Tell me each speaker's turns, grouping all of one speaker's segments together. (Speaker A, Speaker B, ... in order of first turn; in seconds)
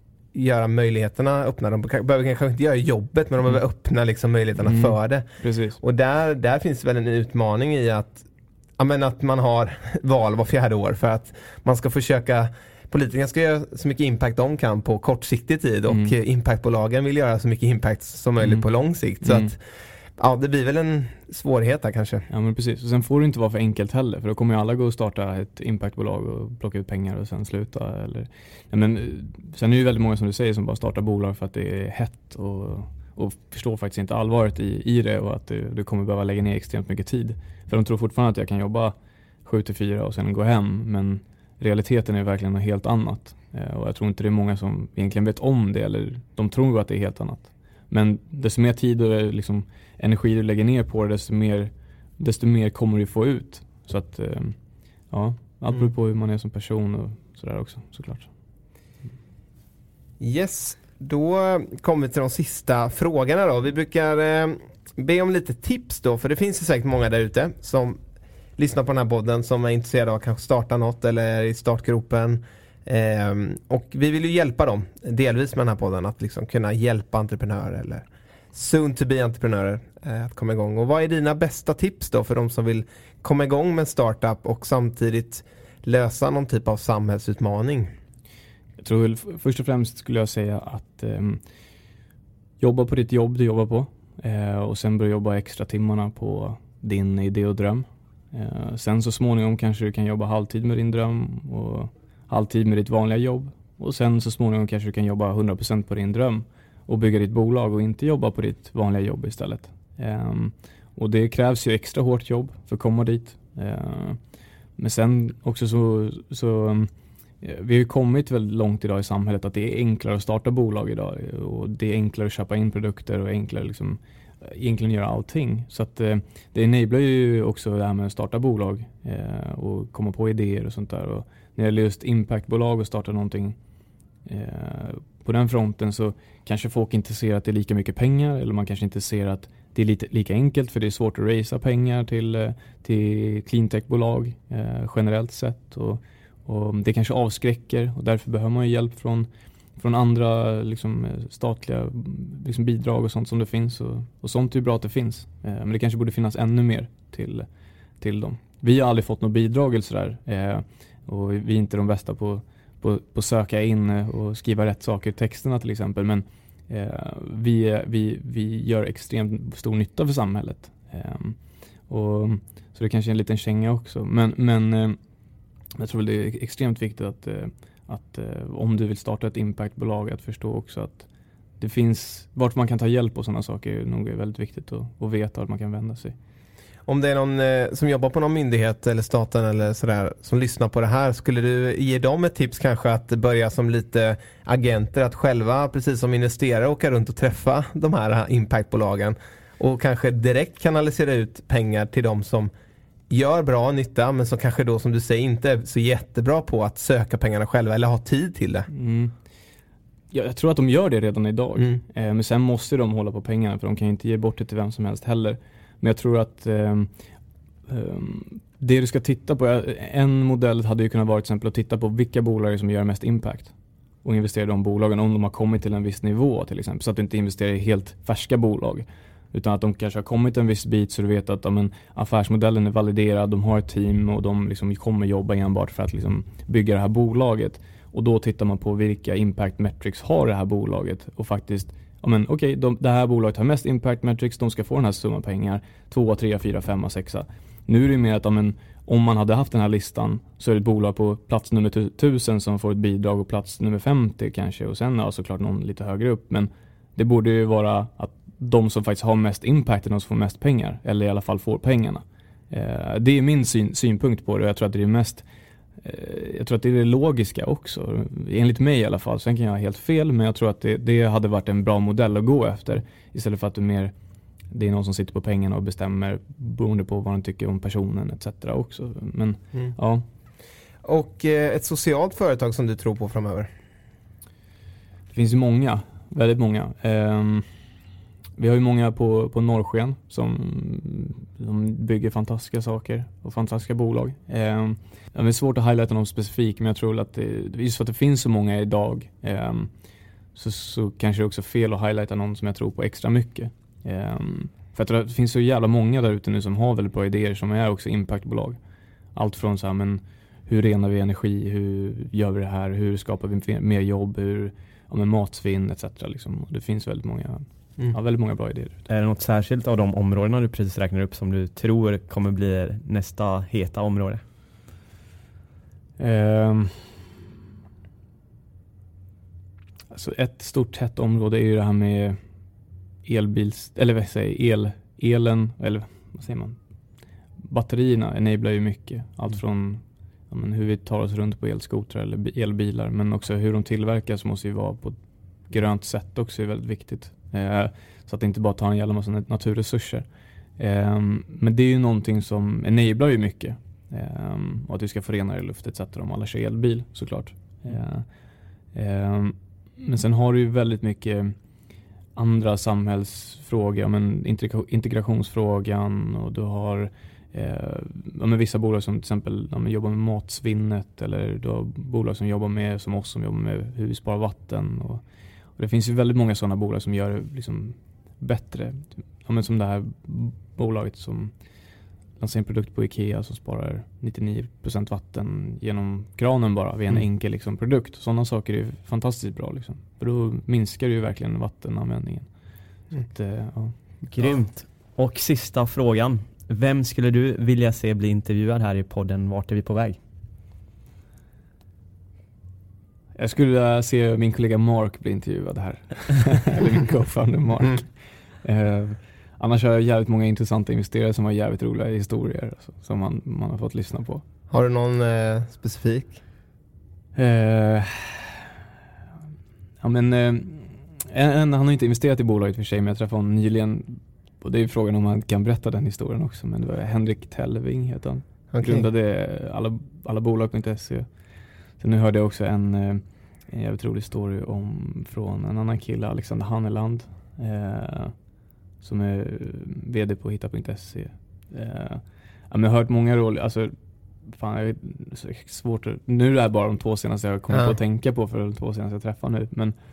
Speaker A: 0.3-5.3, 5.8-8.2, 8.8-19.6, 20.2-22.2, 60.2-68.0, 68.6-87.9, 186.8-202.5, 203.1-208.7, 280.8-283.5, 414.5-416.2, 428.5-428.9
Speaker B: 4.6-5.8, 15.9-16.1, 19.2-19.5, 22.3-54.5, 55.1-58.3, 88.8-91.4, 92.6-114.2, 114.8-133.6, 134.2-157.5, 158.0-175.0, 175.8-181.1, 181.6-186.2, 208.7-209.1, 210.1-216.9, 217.7-265.2, 265.8-273.9, 274.5-280.0, 285.1-287.5, 288.4-299.7, 300.3-308.6, 309.1-318.8, 326.0-327.0, 329.9-332.2, 333.0-336.6, 337.4-350.0, 350.6-358.1, 358.7-361.4, 362.1-375.0, 375.6-381.3, 382.2-392.3, 393.0-393.7, 403.1-414.2, 417.1-418.4, 419.8-431.1, 431.8-438.1, 438.8-443.7, 444.3-449.7
Speaker C: 318.9-324.2, 394.1-400.0